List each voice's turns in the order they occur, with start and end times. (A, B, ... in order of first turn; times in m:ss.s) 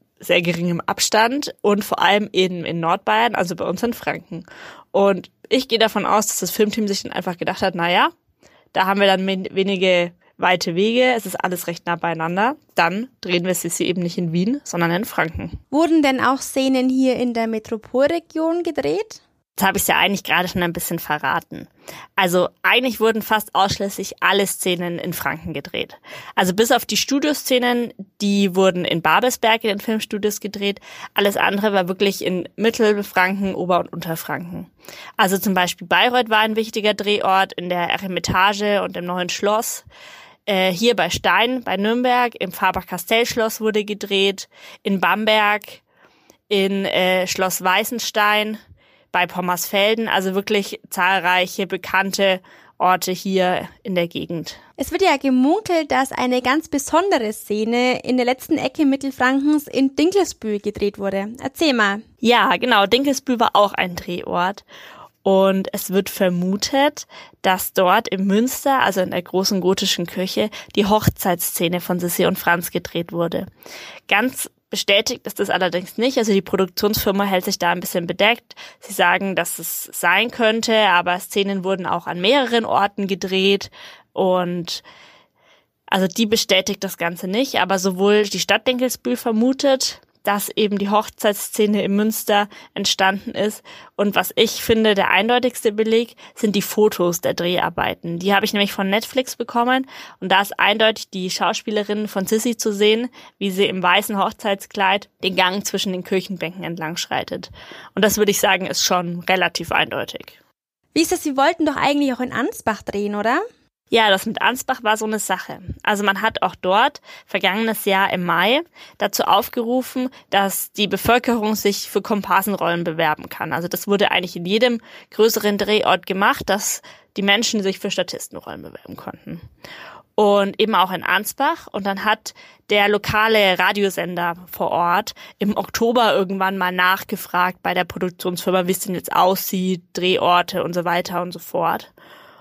0:00.2-0:08.1 A
0:08.7-0:15.6 A
0:15.7-0:19.2 B
0:19.6-0:39.8 A
0:40.5-0:45.8 A
0:46.5-0:48.6 A
0:49.1-0:54.6 A
0:54.8-1:02.0 B
1:02.2-1:04.6 A
1:05.2-1:13.5 A
1:14.1-1:24.8 A
1:25.9-1:50.4 A
1:50.9-1:53.4 B
1:53.9-2:09.4 A
2:10.2-2:21.9 A